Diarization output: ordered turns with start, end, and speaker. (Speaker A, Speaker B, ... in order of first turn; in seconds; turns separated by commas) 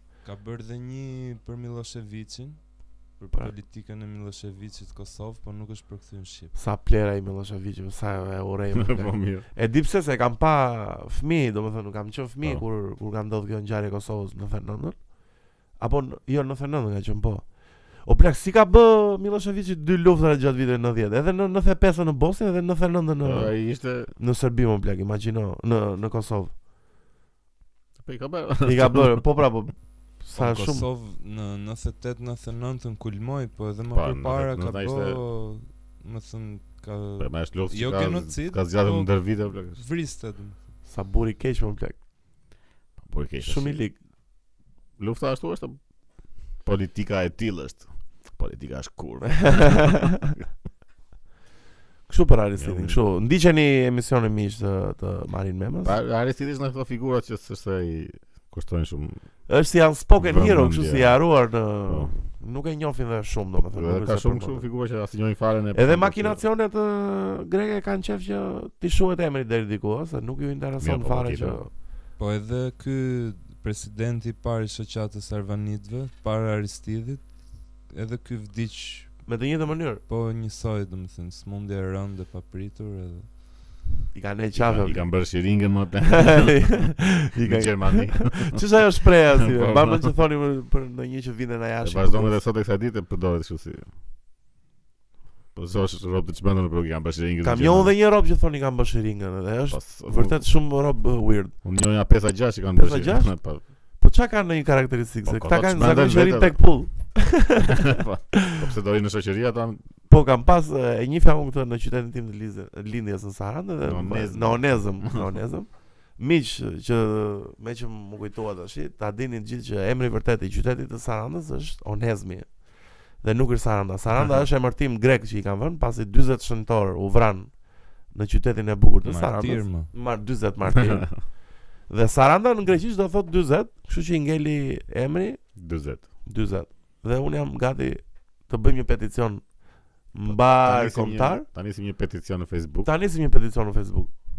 Speaker A: 0.2-6.5, Speaker B: 6.5-15.0, Speaker C: 8.7-9.4, Speaker B: 15.8-17.5, Speaker B: 18.0-23.6, Speaker C: 23.2-24.1, Speaker B: 24.1-26.5, Speaker C: 28.0-29.2, Speaker B: 28.6-30.9, Speaker A: 30.4-40.6, Speaker C: 33.9-35.2, Speaker C: 37.2-39.8, Speaker B: 40.9-42.0, Speaker C: 43.0-43.7, Speaker B: 43.4-44.0, Speaker C: 45.0-45.8, Speaker C: 46.6-50.4, Speaker B: 49.3-50.2, Speaker B: 52.1-56.0, Speaker C: 52.6-53.0, Speaker C: 55.8-59.2, Speaker B: 59.5-64.7, Speaker C: 60.2-61.2, Speaker C: 63.7-66.4, Speaker B: 65.7-71.7, Speaker C: 70.8-71.6, Speaker A: 72.2-79.3, Speaker B: 79.2-80.0, Speaker A: 80.1-83.8, Speaker B: 84.1-85.1, Speaker C: 84.5-88.6, Speaker B: 86.0-92.4, Speaker C: 89.4-90.1, Speaker C: 91.8-93.9, Speaker C: 95.5-97.9, Speaker B: 97.4-101.5, Speaker C: 99.7-100.4, Speaker C: 101.6-103.6, Speaker B: 102.8-103.3, Speaker B: 104.0-108.6, Speaker C: 105.3-106.6, Speaker C: 107.6-109.8, Speaker B: 110.1-122.6, Speaker C: 113.8-115.3, Speaker B: 123.2-135.4, Speaker A: 129.0-129.9, Speaker C: 130.7-131.2, Speaker C: 135.6-136.1, Speaker B: 136.2-139.4, Speaker B: 140.1-141.4, Speaker C: 140.3-142.9, Speaker B: 142.8-144.1